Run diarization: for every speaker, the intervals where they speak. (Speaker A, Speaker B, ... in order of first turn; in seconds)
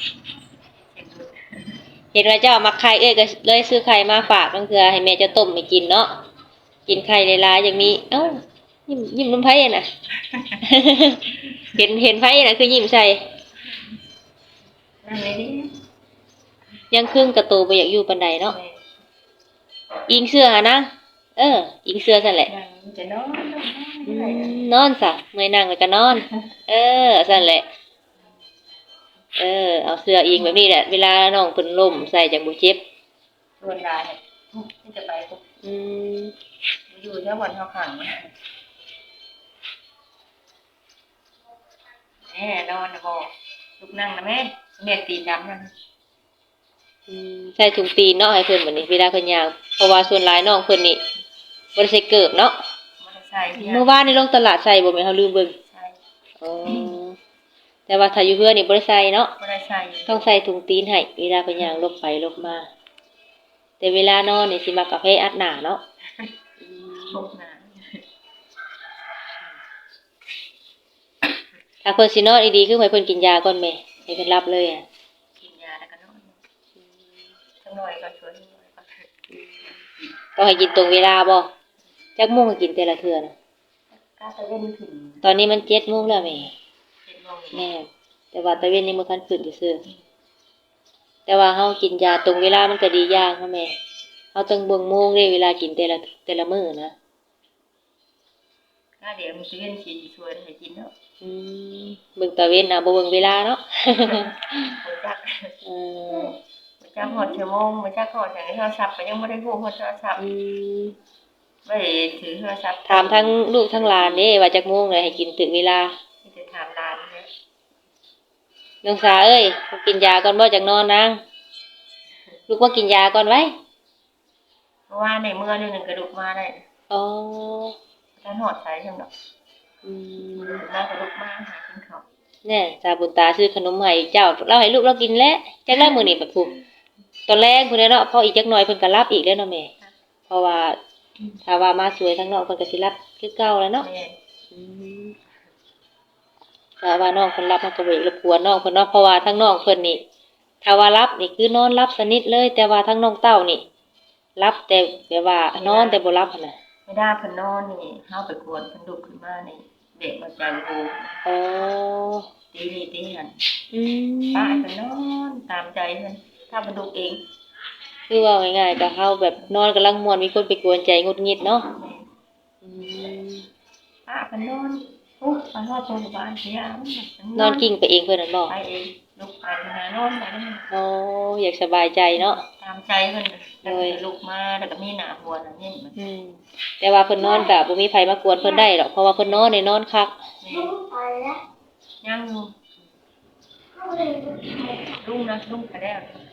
Speaker A: 0.8-1.8, 10.2-10.6, 15.0-15.8, 18.4-18.8, 22.4-24.7, 33.6-35.4, 36.9-38.3, 42.3-45.7, 53.0-54.0, 55.6-56.0, 56.6-56.9, 59.4-60.2, 67.1-68.0, 75.4-76.4, 77.6-79.1, 83.9-85.3, 87.1-87.7, 99.0-100.9, 104.0-105.5, 106.8-110.2, 111.7-113.4, 116.2-117.3, 124.9-126.7, 128.2-129.1, 130.3-132.0, 143.8-144.2, 155.6-156.0, 156.9-161.2, 162.5-163.4, 164.3-167.2, 171.8-172.1, 174.1-177.7, 178.5-180.7, 182.4-186.0, 190.4-190.8, 192.0-192.5, 195.0-196.2
Speaker B: 2.1-6.1, 6.9-9.9, 10.6-13.2, 16.9-18.6, 20.1-22.5, 24.1-27.6, 29.4-32.8, 35.6-36.4, 47.1-51.0, 51.8-52.6, 53.6-55.6, 56.4-57.2, 57.9-59.3, 60.1-62.7, 63.8-65.8, 66.6-67.2, 71.8-74.8, 79.3-79.6, 80.4-81.5, 82.2-83.3, 85.2-86.5, 87.5-89.8, 91.3-93.8, 94.3-97.0, 101.2-104.8, 105.6-106.3, 110.2-111.0, 112.9-115.9, 118.8-121.2, 122.5-123.5, 126.9-127.8, 129.8-130.6, 132.4-136.5, 137.3-139.7, 140.3-140.8, 141.4-143.9, 144.5-145.1, 146.8-150.0, 150.6-153.6, 154.4-156.6, 161.2-162.3, 163.7-164.7, 168.1-171.7, 172.6-173.5, 177.4-178.5, 180.7-182.4, 183.6-184.0, 186.0-190.2
Speaker C: 187.2-187.5, 190.5-191.4, 193.8-195.0